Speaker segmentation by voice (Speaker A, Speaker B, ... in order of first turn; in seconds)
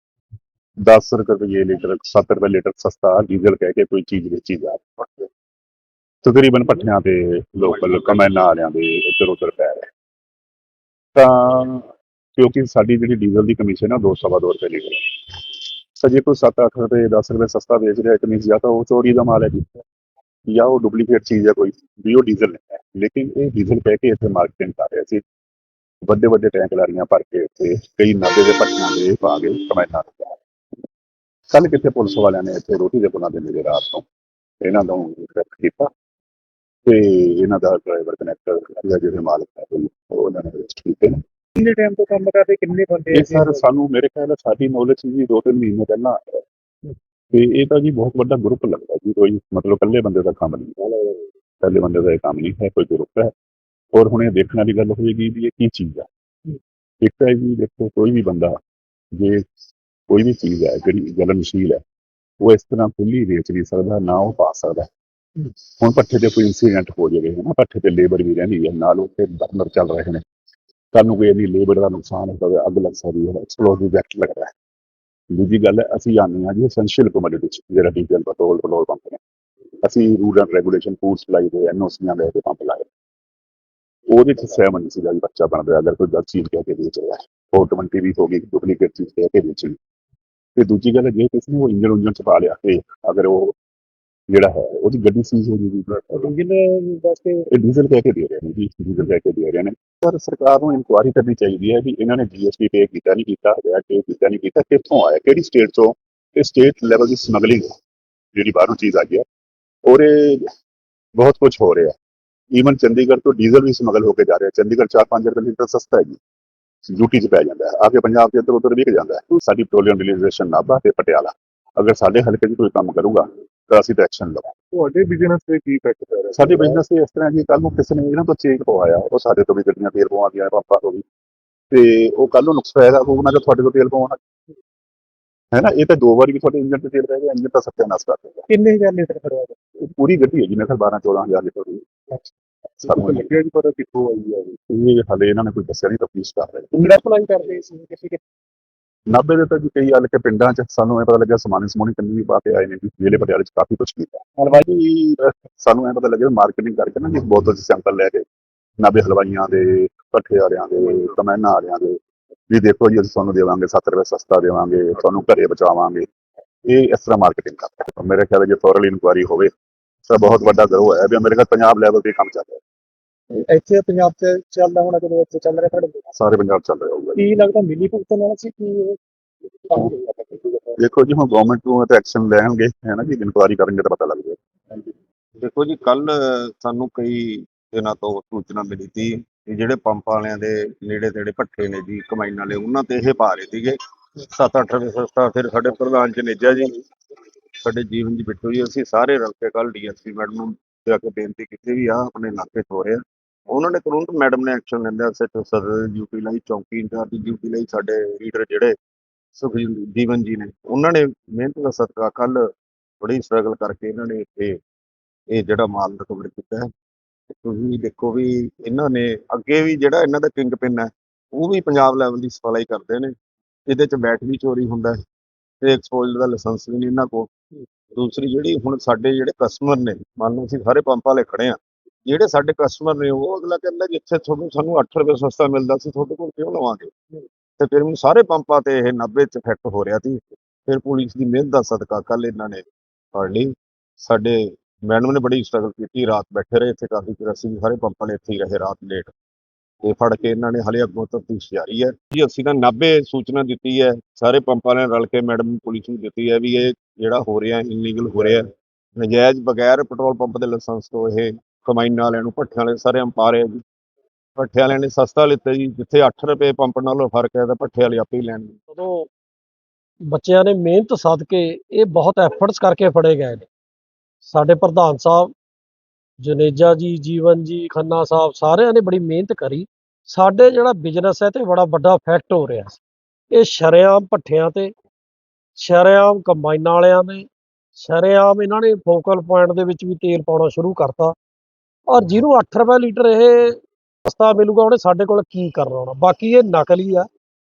Speaker A: 0.8-5.3, 6.2-9.9, 11.2-15.4, 16.0-19.7, 20.5-25.2, 26.1-30.4, 31.5-34.0, 34.6-35.9, 36.9-41.2, 43.1-46.4, 47.3-50.8, 51.6-53.3, 53.9-56.1, 57.0-58.6, 59.2-59.4, 60.1-61.8, 62.4-64.9, 65.4-70.2, 70.9-74.5, 75.3-79.2, 79.8-82.9, 84.1-89.8, 90.6-93.5, 94.3-96.3, 97.5-107.7, 108.3-109.2, 109.9-110.5, 111.2-111.9, 112.5-116.2, 116.9-124.6, 126.3-131.0, 131.7-134.2, 135.5-138.4, 139.8-141.8, 142.8-143.3, 144.7-146.9, 149.1-158.2, 158.8-166.1, 166.7-169.5, 170.1-172.6, 176.2-177.3, 180.8-184.4
Speaker B: 7.7-8.2, 185.4-196.8, 197.6-208.7, 209.4-212.4, 213.0-214.6, 215.3-216.7, 217.4-223.1, 223.7-225.0, 225.6-227.3, 227.9-236.9, 237.6-242.6, 243.2-249.1, 249.8-263.6, 264.4-268.5
Speaker C: 41.6-43.6, 96.1-97.4, 124.7-126.8, 138.5-139.5, 142.8-144.6, 146.8-148.2, 173.3-176.0, 177.2-179.0, 179.7-180.7
Speaker D: 268.7-269.1, 270.1-273.5, 274.2-275.3, 276.2-282.8, 283.3-284.7, 285.6-291.1, 291.9-297.1